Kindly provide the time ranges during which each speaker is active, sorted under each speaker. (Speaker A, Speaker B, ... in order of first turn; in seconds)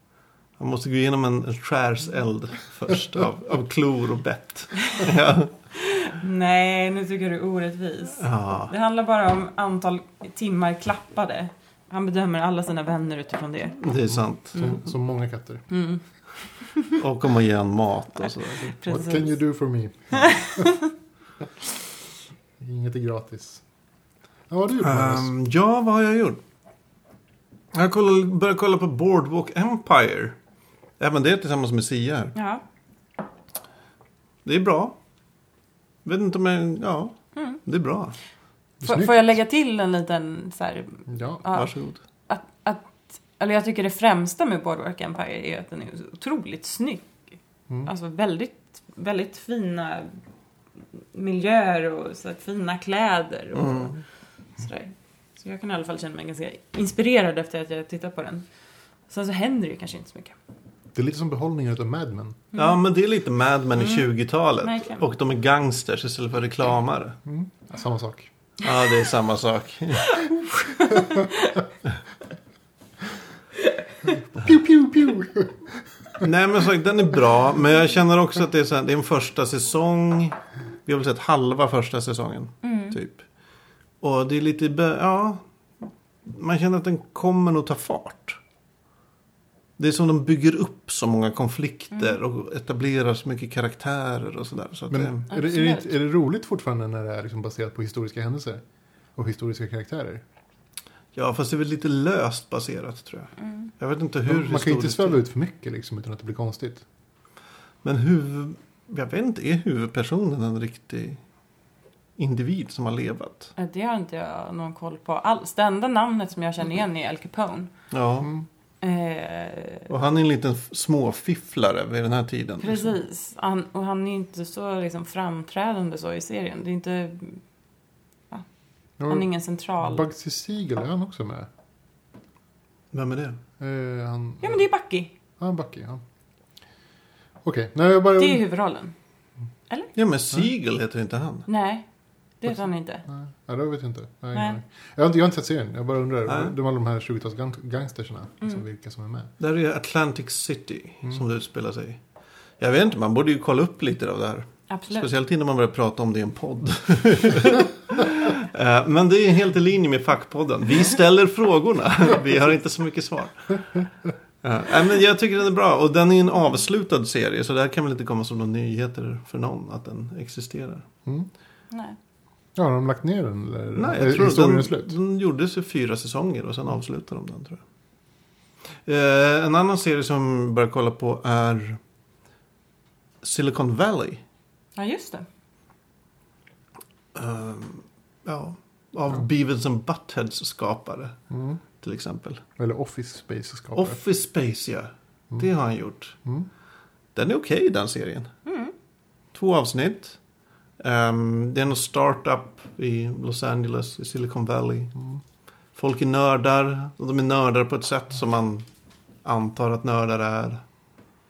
Speaker A: 0.6-5.5, 8.2-8.7, 13.8-14.8, 16.9-18.8, 24.8-26.4, 27.7-30.4, 31.0-32.4, 34.5-35.0, 36.0-38.1, 41.5-42.0, 53.6-54.0, 62.5-67.2, 68.6-70.3, 76.2-83.2, 84.0-85.4, 86.3-88.4, 89.8-95.3, 101.2-105.2, 107.8-111.2, 112.2-113.5, 117.9-118.3, 119.9-122.9, 132.9-133.4, 140.0-141.5, 146.3-146.6, 149.4-152.0, 152.6-163.8, 164.4-170.9, 173.8-177.6, 178.9-181.8, 183.2-184.2, 187.2-191.2, 191.8-192.4, 193.8-196.2, 197.2-198.3, 199.3-200.2, 200.8-204.9, 205.8-208.7, 209.2-210.6
Speaker B: 5.7-13.8, 15.7-16.0, 16.6-16.9, 18.6-19.3, 20.2-20.9, 32.4-32.6, 38.8-41.7, 42.3-47.1, 47.9-50.2, 51.1-54.0, 54.6-58.5, 59.1-60.4, 63.8-64.1, 64.6-65.0, 70.1-71.6, 82.6-83.0, 95.3-95.9, 113.6-117.7, 118.8-119.9, 122.6-127.4, 129.1-130.0, 134.4-135.1, 138.2-138.9, 141.5-141.9, 142.4-143.0, 144.3-144.6, 154.7-155.1, 171.7-172.0, 184.8-185.3, 198.5-198.7
Speaker C: 14.5-15.7, 18.9-20.7, 22.6-23.6, 24.5-25.3, 38.8-39.2, 41.1-41.4, 61.0-62.4, 67.2-68.3, 74.1-75.7, 94.9-98.6, 99.2-100.2, 104.3-106.8, 129.0-129.3, 129.8-131.5, 133.6-134.6, 135.4-136.0, 137.4-138.4, 143.1-149.3, 172.6-174.9, 191.3-191.6, 192.6-194.0